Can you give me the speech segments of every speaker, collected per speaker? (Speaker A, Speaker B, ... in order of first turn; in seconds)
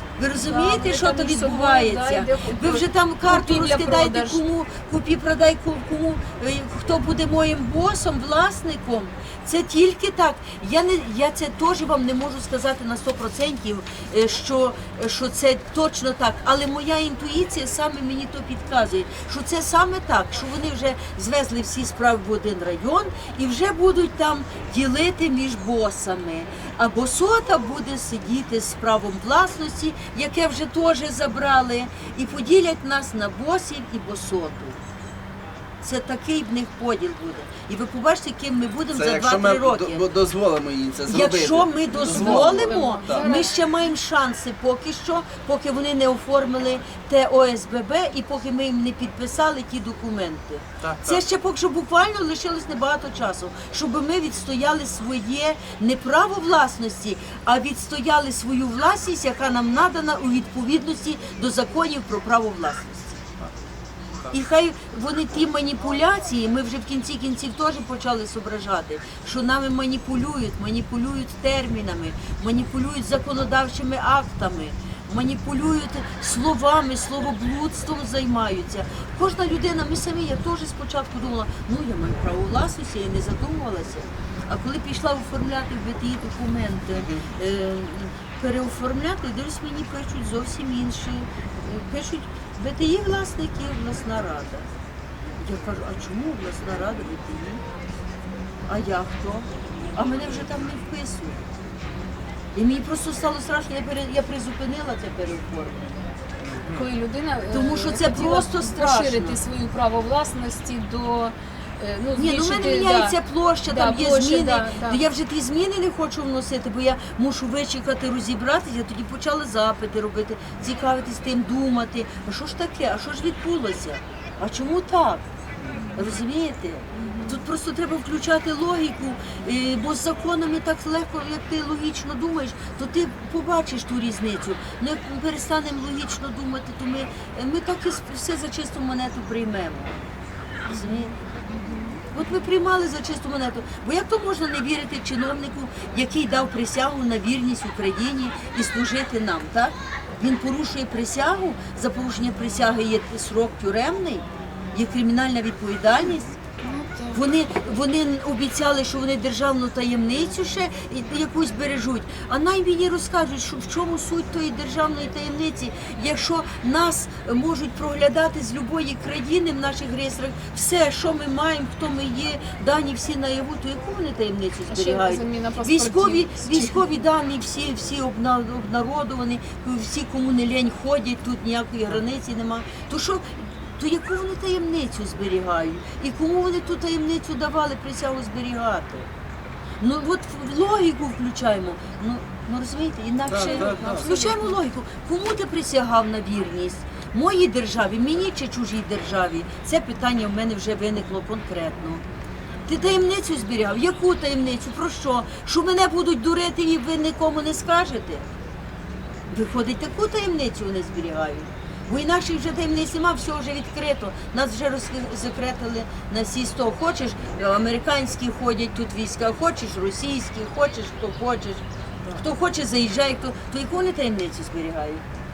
Speaker A: 0.2-34.8, 35.8-40.1, 41.1-63.2, 64.3-94.7, 95.4-97.6, 98.7-101.4, 102.5-105.9, 107.5-109.4, 112.2-125.2, 125.9-140.0, 140.7-141.1, 142.1-156.3, 157.1-189.1, 189.8-202.0, 202.7-208.2, 209.3-225.0
Speaker B: 0.3-4.4, 41.9-43.6, 106.7-115.0, 127.0-127.3, 140.7-142.0, 156.6-157.2, 174.7-176.8, 193.3-194.6
Speaker C: 38.9-43.3, 50.8-51.2, 86.9-87.3, 106.4-106.8, 193.3-194.1